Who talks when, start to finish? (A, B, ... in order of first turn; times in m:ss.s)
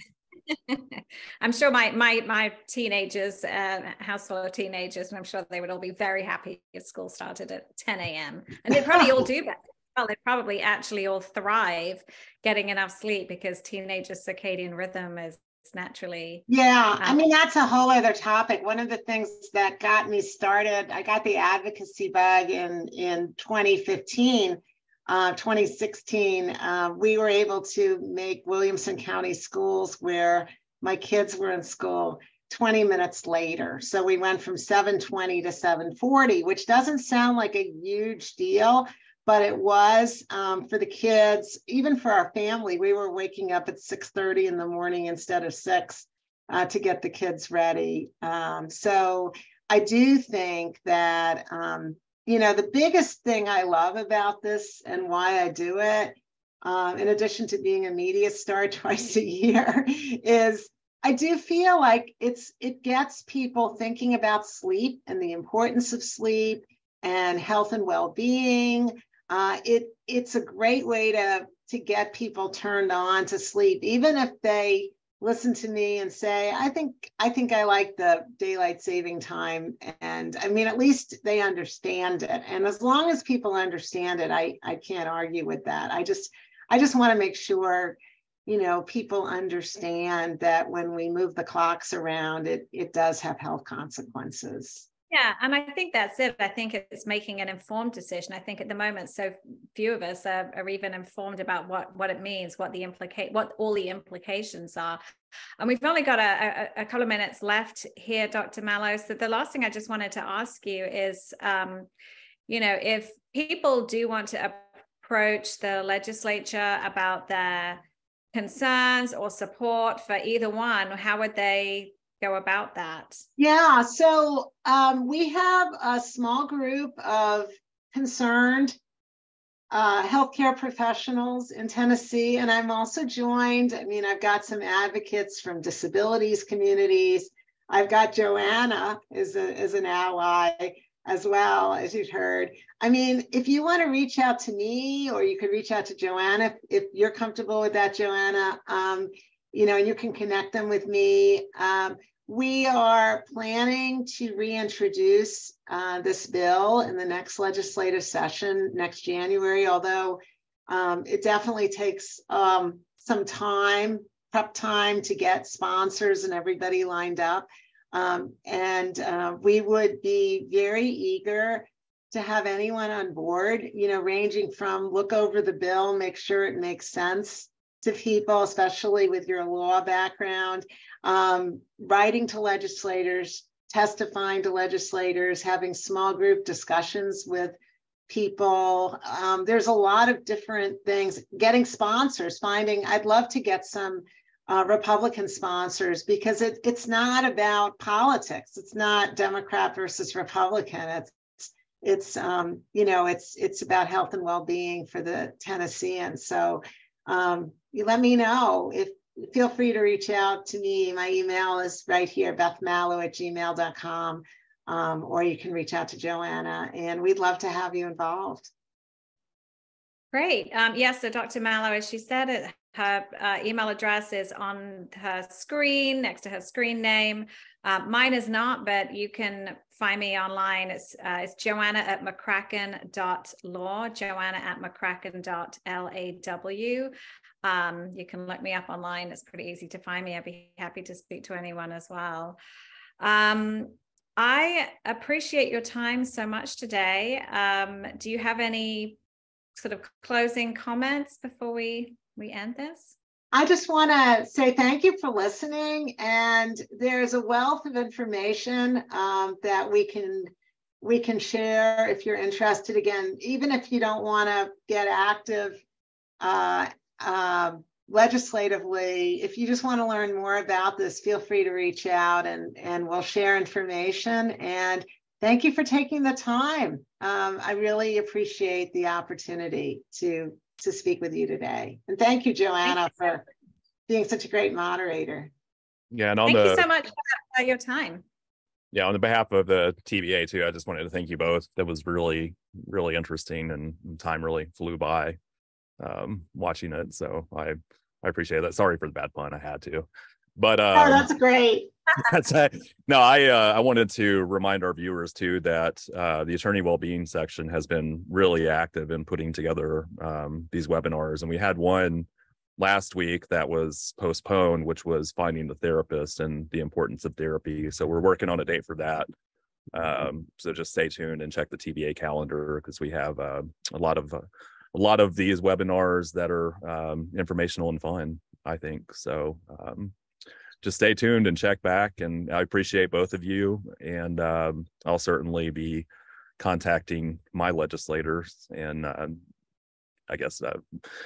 0:00.5-0:16.4 A
0:08.7-0:09.2 B
0:16.5-1:34.9 B
1:35.1-1:45.0 A
1:45.6-1:51.9 A
1:52.5-1:57.8 A
1:58.3-2:03.2 A
2:03.4-2:08.8 B
2:09.7-3:07.6 B
3:08.1-3:38.5 B
3:40.1-4:02.4 A
4:03.0-4:09.0 A
4:09.5-4:13.0 A
4:13.3-4:25.6 B
4:26.2-4:43.2 B
4:42.7-4:43.0 A
4:43.9-4:45.3 B
4:45.9-4:46.6 C
4:46.2-4:48.0 A
4:48.7-4:55.2 C
4:55.8-5:01.1 C
5:00.7-5:01.7 B
5:02.0-5:12.1 C
5:12.6-5:19.1 C
5:19.7-5:29.9 C
5:30.6-5:35.9 C
5:36.4-5:39.2 C
5:40.1-5:40.6 C